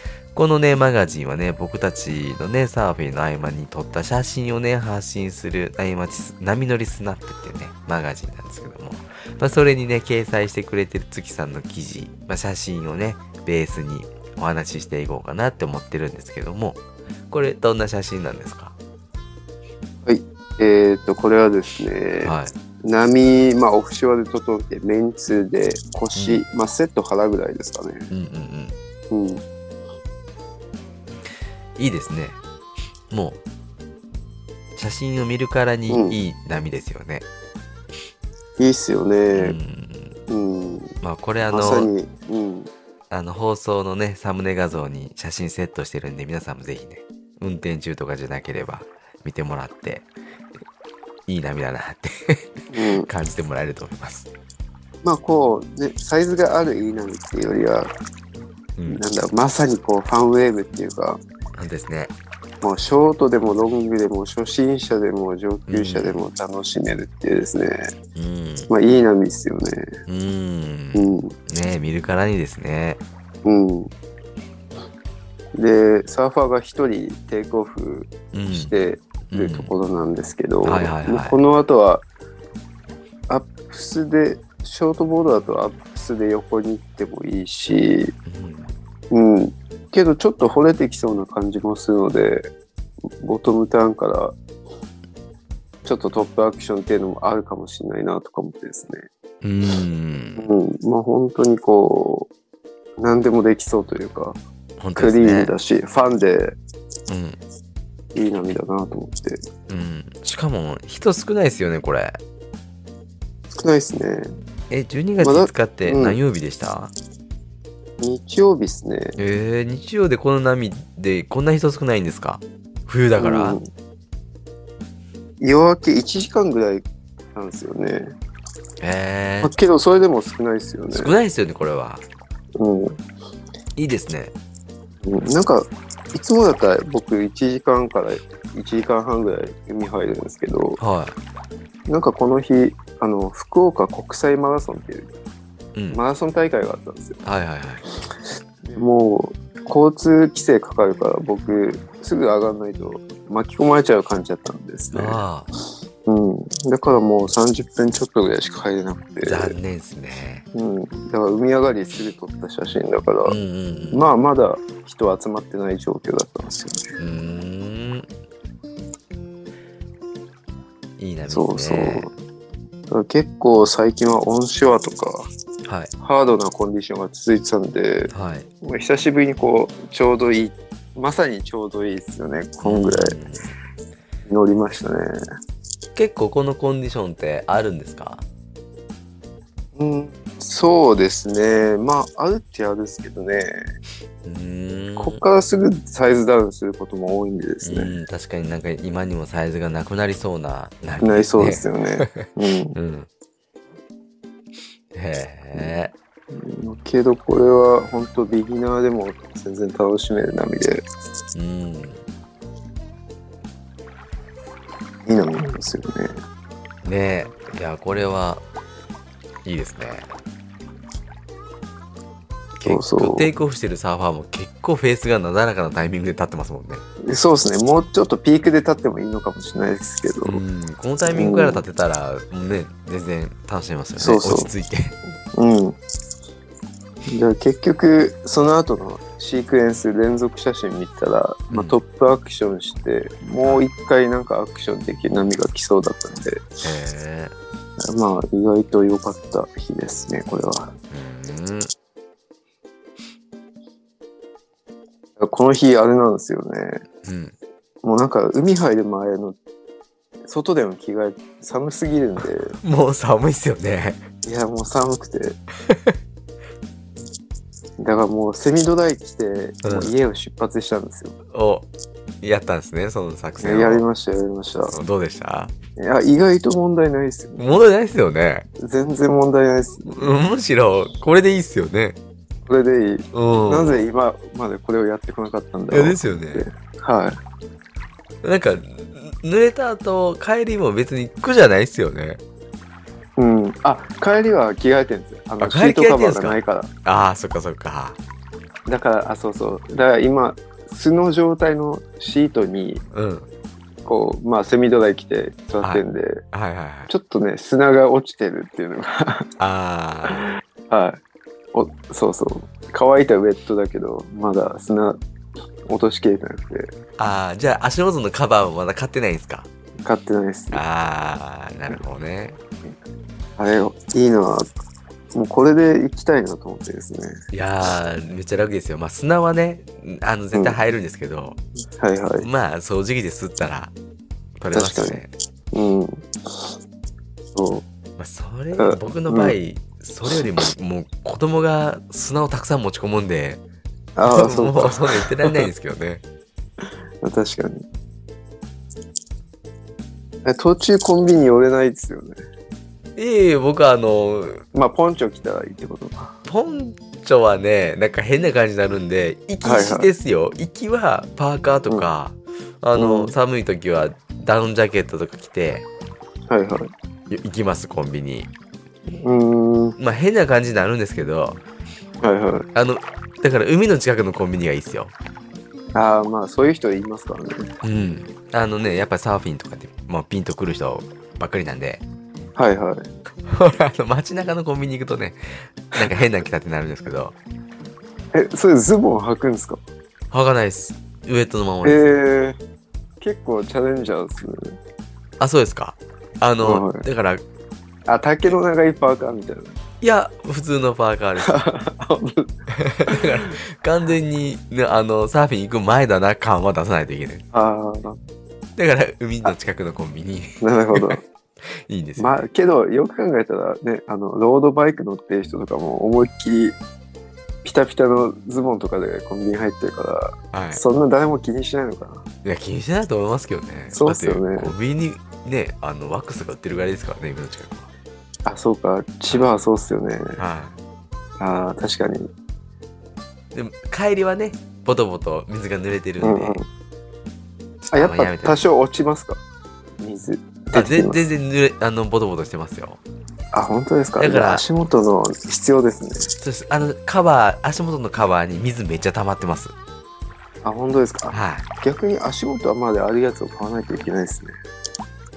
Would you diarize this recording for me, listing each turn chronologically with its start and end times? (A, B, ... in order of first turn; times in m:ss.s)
0:00.3-0:18.7 A
0:20.0-0:28.1 B
0:22.2-0:22.5 A
0:26.1-0:26.4 A
0:28.1-0:28.8 A
0:29.1-0:29.4 B
0:31.8-0:32.4 A
0:33.1-0:33.4 A
0:34.8-0:37.2 A
0:35.9-0:36.2 B
0:38.6-0:39.6 B
0:39.3-0:40.2 A
0:40.3-0:40.9 B
0:41.0-0:41.9 A
0:41.5-0:42.7 B
0:43.1-0:50.1 A
0:51.3-0:54.3 A
0:52.7-0:53.1 B
0:55.0-0:57.9 B
0:58.8-0:59.0 A
0:58.9-1:01.2 B
1:01.5-1:02.1 A
1:02.6-1:07.9 B
1:05.7-1:06.2 A
1:08.1-1:08.7 A
1:08.7-1:09.9 B
1:10.1-1:13.0 A
1:10.9-1:11.3 B
1:13.4-1:13.9 B
1:15.5-1:22.0 B
1:18.3-1:18.7 A
1:19.3-1:19.7 A
1:20.6-1:21.4 A
1:23.3-1:28.1 B
1:28.2-1:28.7 A
1:29.1-1:32.5 B
1:33.2-1:34.3 B
1:35.8-1:39.1 B
1:39.4-1:40.5 A
1:40.4-1:42.3 B
1:43.0-1:44.4 B
1:44.8-1:45.5 A
1:45.0-1:46.6 B
1:47.1-1:47.4 A
1:48.1-1:49.4 B
1:49.7-1:52.2 A
1:53.5-1:54.3 B
1:54.7-1:56.9 A
1:55.2-1:56.2 B
1:58.0-1:59.2 B
1:59.2-2:03.6 A
2:03.2-2:03.7 B
2:05.4-2:08.1 B
2:08.8-2:09.5 A
2:09.4-2:11.1 B
2:10.9-2:12.0 A
2:12.6-2:13.0 B
2:13.8-2:14.3 A
2:15.0-2:20.8 B
2:20.8-2:21.2 A
2:21.9-2:25.1 B
2:25.7-2:26.0 A
2:25.9-2:27.2 B
2:27.2-2:27.8 A
2:28.6-2:35.2 B
2:34.9-2:35.5 A
2:36.0-2:39.5 B
2:39.2-2:40.4 A
2:40.5-2:43.4 B
2:43.2-2:44.1 A
2:43.9-2:46.8 B
2:47.0-2:48.1 A
2:51.0-2:52.1 A
2:51.3-2:52.1 B
2:52.9-2:55.3 B
2:55.6-2:55.9 A
2:56.0-3:03.2 B
2:58.1-2:58.5 A
3:02.6-3:03.5 A
3:04.3-3:05.1 B
3:05.9-3:08.2 A
3:09.8-3:13.6 B
3:14.2-3:15.2 A
3:15.0-3:17.9 B
3:17.6-3:23.1 A
3:21.0-3:22.8 B
3:24.9-3:25.9 A
3:26.3-3:30.8 B
3:31.3-3:32.0 A
3:35.0-3:36.1 B
3:36.8-3:38.4 A
3:39.4-3:40.1 A
3:42.6-3:46.8 A
3:42.6-3:43.3 B
3:47.0-3:50.4 B
3:50.2-3:54.9 A
3:51.0-3:51.6 B
3:54.0-3:54.5 B
3:55.3-3:55.8 B
3:57.1-4:06.5 B
4:01.5-4:01.8 A
4:06.6-4:07.3 A
4:07.8-4:10.7 B
4:10.9-4:11.7 A
4:15.2-4:16.8 B
4:17.0-4:17.3 A
4:17.8-4:19.4 B
4:20.2-4:22.6 B
4:22.6-4:24.0 A
4:24.2-4:25.4 B
4:25.7-4:26.0 A
4:27.8-4:31.2 B
4:29.6-4:29.9 A
4:31.3-4:31.7 A
4:32.2-4:33.8 A
4:33.4-4:34.7 B
4:34.7-4:35.5 A
4:35.8-4:37.6 B
4:37.4-4:38.5 A
4:38.6-4:40.1 B
4:39.8-4:42.0 A
4:42.4-4:47.2 B
4:43.1-4:43.8 A
4:45.7-4:46.5 A
4:48.2-4:52.2 A
4:53.2-4:56.7 B
4:55.4-4:58.0 A
4:58.6-5:02.8 B
5:02.9-5:03.3 A
5:03.8-5:06.2 B
5:05.6-5:06.9 A
5:06.9-5:09.3 B
5:09.4-5:10.3 A
5:10.7-5:11.0 B
5:11.5-5:15.0 B
5:15.7-5:16.7 B
5:17.0-5:19.5 A
5:19.8-5:20.6 B
5:20.5-5:22.4 A
5:23.4-5:24.5 B
5:25.1-5:27.2 B
5:27.3-5:31.4 A
5:30.3-5:30.6 B
5:31.8-5:32.3 B
5:32.2-5:33.7 A
5:34.4-5:35.1 A
5:34.5-5:35.0 B
5:35.5-5:36.5 B
5:37.3-5:37.6 B
5:38.0-5:43.4 A
5:38.6-5:39.3 B
5:44.0-5:45.5 B
5:44.1-5:46.0 A
5:47.0-5:47.6 B
5:50.2-5:52.2 B
5:53.0-5:54.4 A
5:54.5-5:56.1 B
5:56.2-6:05.6 A
5:59.4-5:59.9 B
6:02.8-6:03.1 B
6:06.3-6:06.7 B
6:07.1-6:08.3 A
6:08.9-6:09.8 B
6:09.8-6:11.4 A
6:12.0-6:12.4 B
6:12.5-6:14.9 A
6:15.7-6:17.5 B
6:17.6-6:21.8 A
6:22.4-6:22.9 B
6:23.2-6:27.1 A
6:28.1-6:29.6 B
6:30.1-6:31.8 A
6:31.6-6:32.4 B
6:33.0-6:34.6 B
6:35.2-6:37.2 A
6:36.4-6:36.8 B
6:37.9-6:39.6 B
6:39.8-6:41.4 A
6:41.2-6:42.3 B
6:42.6-6:47.2 A
6:42.9-6:43.3 B
6:47.3-6:48.0 B
6:48.6-6:52.2 A
6:50.4-6:51.0 B
6:52.0-6:56.6 B
6:57.4-7:02.1 B
7:00.3-7:00.6 A
7:02.2-7:07.7 A
7:03.7-7:04.5 B
7:08.2-7:10.2 B
7:10.2-7:10.6 A
7:11.2-7:12.1 B
7:13.3-7:16.4 A
7:16.0-7:16.4 B
7:17.6-7:18.4 A
7:17.7-7:19.2 B
7:19.8-7:21.0 B
7:20.5-7:22.8 A
7:23.3-7:26.1 B
7:24.0-7:24.4 A
7:26.2-7:29.5 A
7:30.4-7:34.3 B
7:31.1-7:31.4 A